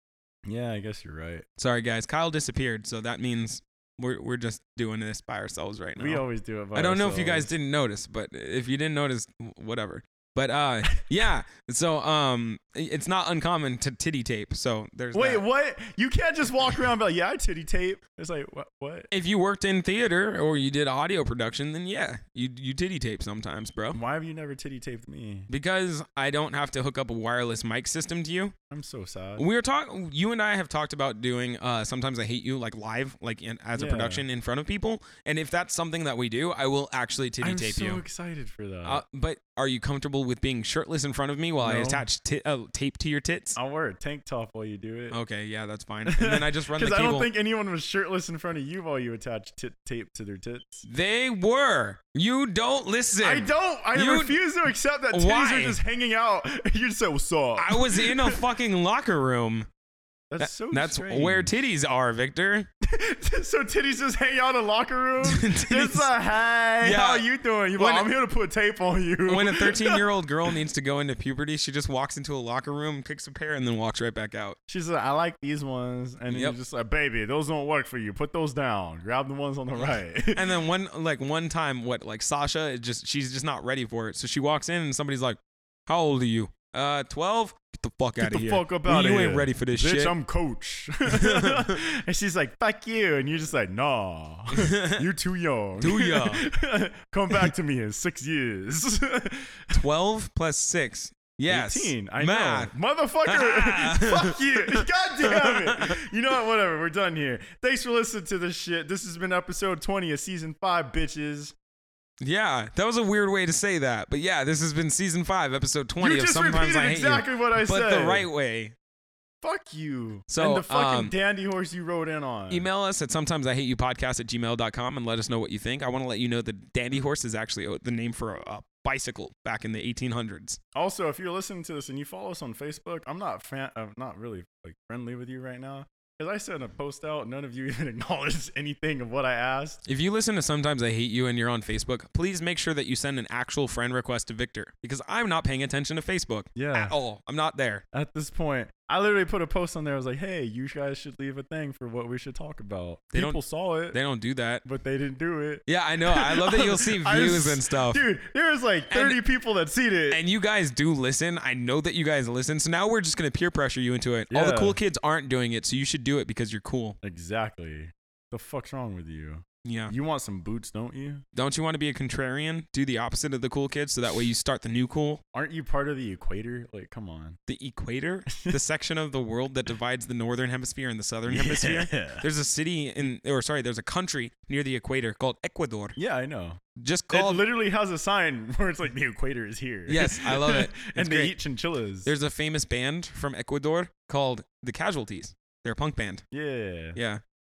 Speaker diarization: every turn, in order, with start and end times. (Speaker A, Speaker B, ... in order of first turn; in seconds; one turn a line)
Speaker A: 0.5-1.4
Speaker B: 1.6-6.2
Speaker A: 6.0-7.5
Speaker B: 6.7-15.4
Speaker A: 15.1-19.1
Speaker B: 19.1-24.0
Speaker A: 23.9-25.5
Speaker B: 25.5-28.6
Speaker A: 28.7-29.4
Speaker B: 29.4-38.0
Speaker A: 33.8-34.2
Speaker A: 37.4-39.0
Speaker B: 38.8-43.6
Speaker A: 41.6-42.0
Speaker A: 43.5-45.2
Speaker B: 45.1-47.3
Speaker A: 46.1-50.9
Speaker B: 50.9-54.4
Speaker A: 53.2-58.4
Speaker B: 55.1-55.8
Speaker B: 57.6-59.7
Speaker A: 60.3-61.5
Speaker B: 60.4-62.7
Speaker A: 62.9-70.1
Speaker B: 65.2-66.1
Speaker B: 66.8-67.2
Speaker B: 67.8-68.1
Speaker B: 69.3-74.6
Speaker A: 74.7-80.5
Speaker B: 76.3-76.6
Speaker B: 80.3-90.1
Speaker A: 88.2-99.7
Speaker B: 91.1-91.7
Speaker B: 94.5-95.0
Speaker B: 95.8-96.5
Speaker B: 99.7-102.7
Speaker A: 101.5-111.5
Speaker B: 103.3-106.0
Speaker B: 112.2-118.7
Speaker A: 116.0-118.3
Speaker A: 119.4-122.6
Speaker B: 120.3-121.1
Speaker B: 122.5-130.6
Speaker A: 130.7-139.8
Speaker B: 139.9-147.8
Speaker A: 146.6-146.9
Speaker A: 147.9-154.0
Speaker B: 153.1-153.4
Speaker B: 153.9-154.6
Speaker A: 154.6-160.2
Speaker B: 155.7-158.0
Speaker B: 158.9-159.2
Speaker B: 160.1-167.0
Speaker A: 164.3-164.8
Speaker A: 167.0-171.2
Speaker B: 169.6-169.9
Speaker B: 171.3-175.2
Speaker A: 175.3-177.4
Speaker B: 177.5-186.0
Speaker A: 181.3-182.2
Speaker A: 186.0-192.1
Speaker B: 186.8-187.4
Speaker B: 189.9-191.3
Speaker B: 192.1-196.2
Speaker A: 196.3-197.0
Speaker B: 196.9-197.2